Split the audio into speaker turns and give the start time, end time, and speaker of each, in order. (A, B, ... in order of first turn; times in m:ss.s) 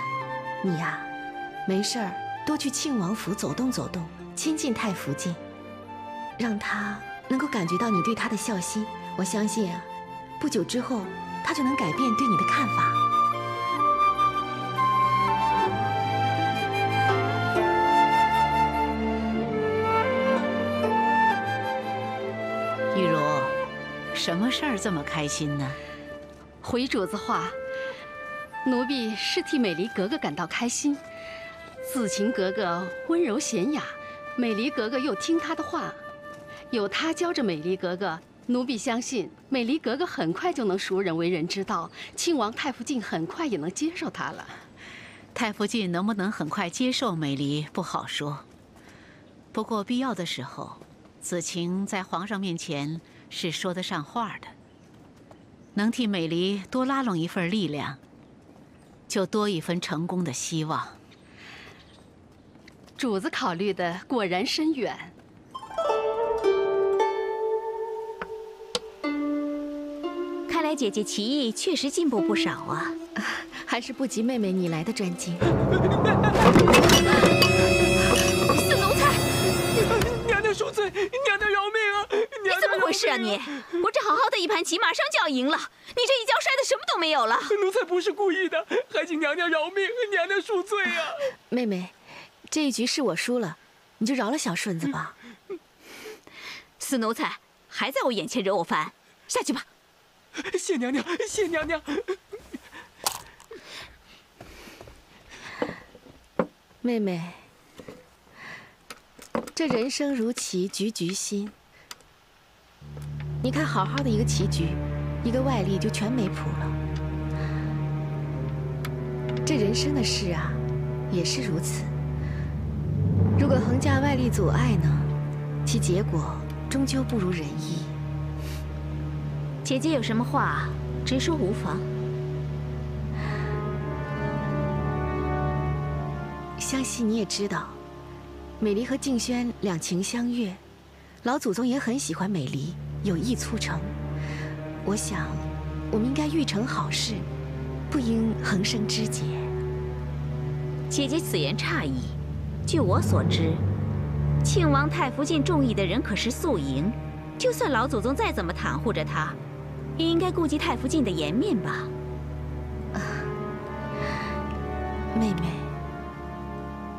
0:00.6-0:01.1 A
0:01.6-0:05.4 A
0:06.4-0:13.0 A
0:22.9-0:23.6 B
0:24.1-0:25.8 B
0:26.6-0:27.6 C
0:28.6-0:31.0 C
0:31.8-0:36.0 C
0:36.7-0:44.6 C
0:45.3-0:48.4 B
0:49.5-0:54.5 B
0:55.7-0:58.0 B
0:59.1-1:01.0 B
1:03.0-1:05.1 C
1:10.5-1:12.9 D
1:13.2-1:15.5 A
1:18.5-1:19.2 D
1:19.8-1:23.7 E
1:22.5-1:27.6 D
1:27.4-1:31.3 E
1:31.5-1:32.0 A
1:32.5-1:35.2 A
1:36.8-1:39.6 D
1:40.4-1:42.0 E
1:46.8-1:47.4 A
1:49.5-1:51.5 A
1:53.4-1:56.8 A
1:59.4-2:01.9 A
2:03.4-2:05.1 A
2:05.6-2:08.0 A
2:09.6-2:11.9 D
2:16.6-2:17.8 A
2:18.6-2:20.6 A
2:21.2-2:23.9 A
2:24.8-2:27.3 A
2:27.9-2:29.5 A
2:30.9-2:33.6 D
2:34.4-2:39.4 D
2:40.0-2:41.9 D
2:42.9-2:43.3 A
2:45.1-2:45.7 A